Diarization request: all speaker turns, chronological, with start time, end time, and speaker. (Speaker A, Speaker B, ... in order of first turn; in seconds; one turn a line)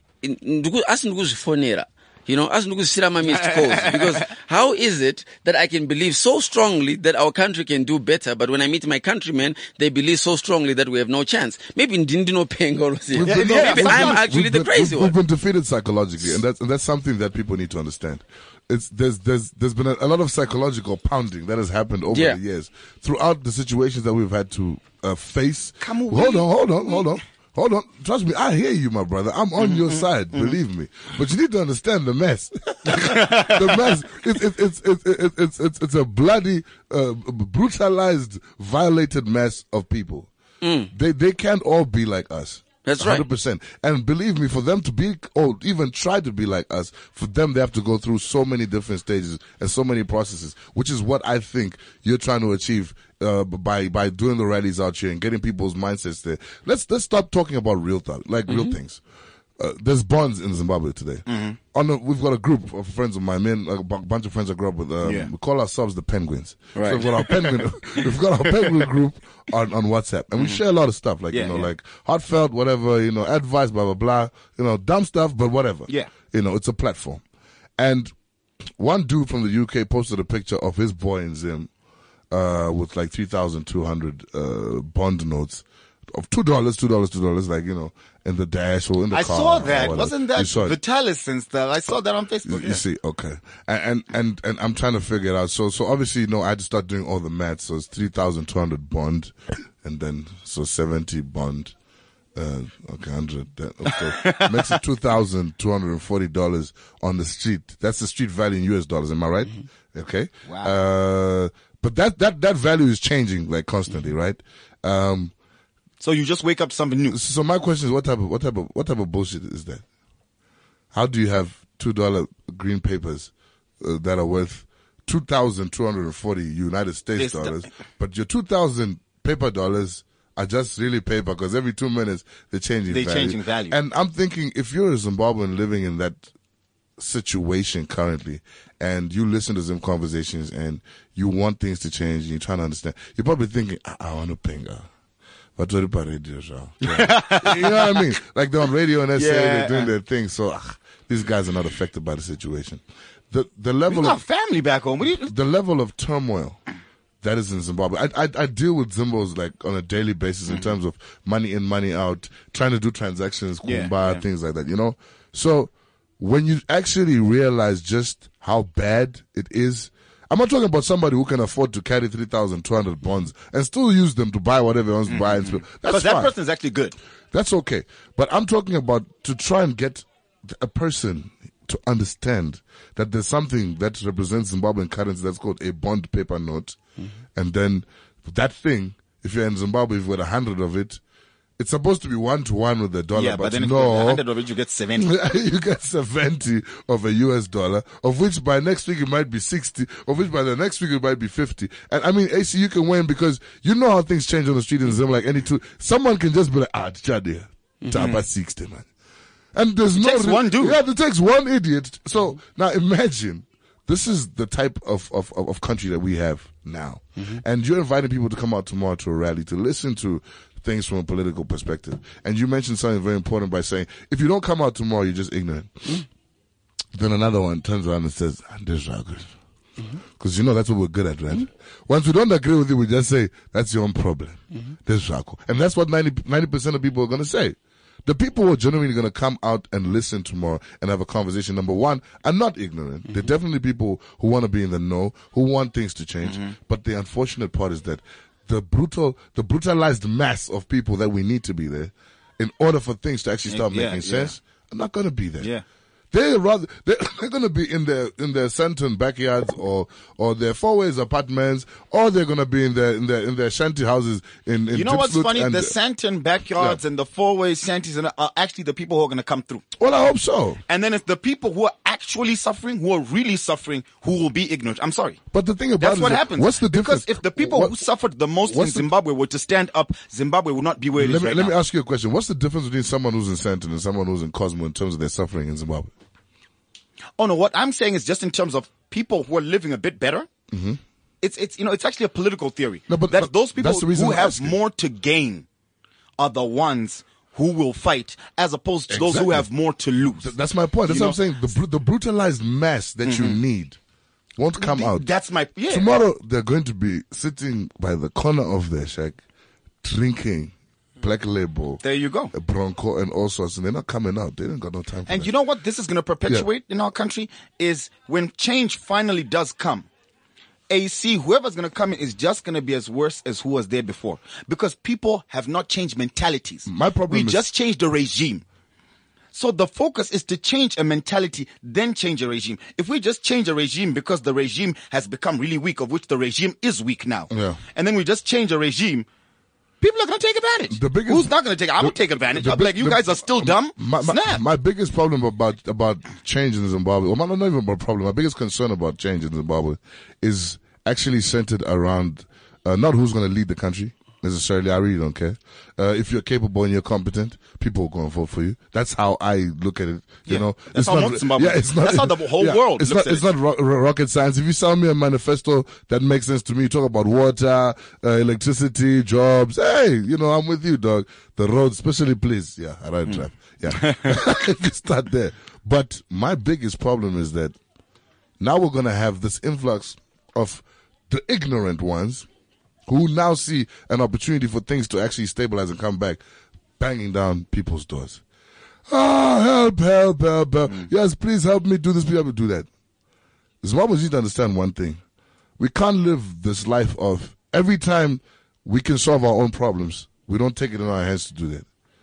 Speaker A: 0.2-15.1
Speaker B: 3.2-4.3
Speaker C: 13.1-40.3
Speaker B: 13.2-14.3
Speaker A: 22.1-22.4
Speaker B: 25.8-26.5
Speaker B: 29.6-30.6
Speaker B: 32.9-33.8
Speaker A: 40.6-40.9
Speaker C: 40.9-59.0
Speaker A: 42.8-43.2
Speaker A: 58.5-58.7
Speaker C: 59.6-77.2
Speaker B: 61.3-61.6
Speaker B: 65.0-65.3
Speaker A: 66.8-67.1
Speaker B: 67.3-67.5
Speaker B: 71.3-71.7
Speaker C: 77.8-78.1
Speaker C: 78.8-81.7
Speaker C: 82.3-90.8
Speaker B: 89.1-92.8
Speaker C: 92.5-101.7
Speaker C: 102.3-115.3
Speaker B: 103.9-104.7
Speaker B: 110.5-110.7
Speaker B: 116.0-117.2
Speaker C: 117.1-119.8
Speaker C: 120.9-136.2
Speaker B: 127.2-127.6
Speaker B: 132.9-133.8
Speaker C: 137.0-144.9
Speaker C: 145.6-154.2
Speaker B: 146.8-148.0
Speaker B: 149.1-149.9
Speaker B: 153.9-155.3
Speaker C: 155.2-156.6
Speaker C: 157.2-176.3
Speaker B: 163.6-164.2
Speaker B: 175.1-177.0
Speaker C: 177.3-186.8
Speaker C: 187.3-191.0
Speaker C: 191.6-194.2
Speaker B: 193.1-195.2
Speaker C: 195.0-208.9
Speaker A: 207.8-208.1
Speaker B: 207.9-208.2
Speaker C: 209.6-226.0
Speaker B: 210.0-210.8
Speaker C: 226.9-229.3
Speaker C: 230.2-255.5
Speaker B: 246.2-246.5
Speaker B: 253.5-254.3
Speaker C: 256.1-265.8
Speaker B: 264.7-269.6
Speaker C: 269.8-270.6
Speaker B: 270.7-275.2
Speaker C: 275.3-277.8
Speaker B: 275.8-281.5
Speaker C: 278.5-278.9
Speaker C: 281.0-285.9
Speaker B: 287.2-290.3
Speaker C: 290.5-290.8
Speaker B: 291.2-295.5
Speaker C: 292.9-294.6
Speaker B: 296.2-300.3
Speaker C: 298.9-299.5
Speaker C: 300.2-303.8
Speaker B: 300.9-301.2
Speaker B: 303.0-303.4
Speaker C: 304.4-305.1
Speaker B: 304.6-305.9
Speaker C: 305.7-309.2
Speaker C: 309.8-311.8
Speaker B: 311.8-312.3
Speaker C: 312.3-315.3
Speaker B: 315.1-319.9
Speaker B: 320.7-328.4
Speaker C: 326.7-327.4
Speaker B: 329.3-339.1
Speaker C: 337.3-337.6
Speaker B: 339.8-344.4
Speaker C: 340.7-377.6
Speaker B: 360.3-363.3
Speaker B: 373.1-374.2
Speaker C: 378.4-382.3
Speaker C: 382.9-386.2
Speaker C: 386.8-388.2
Speaker C: 388.9-392.7
Speaker C: 393.6-395.0
Speaker C: 395.6-401.7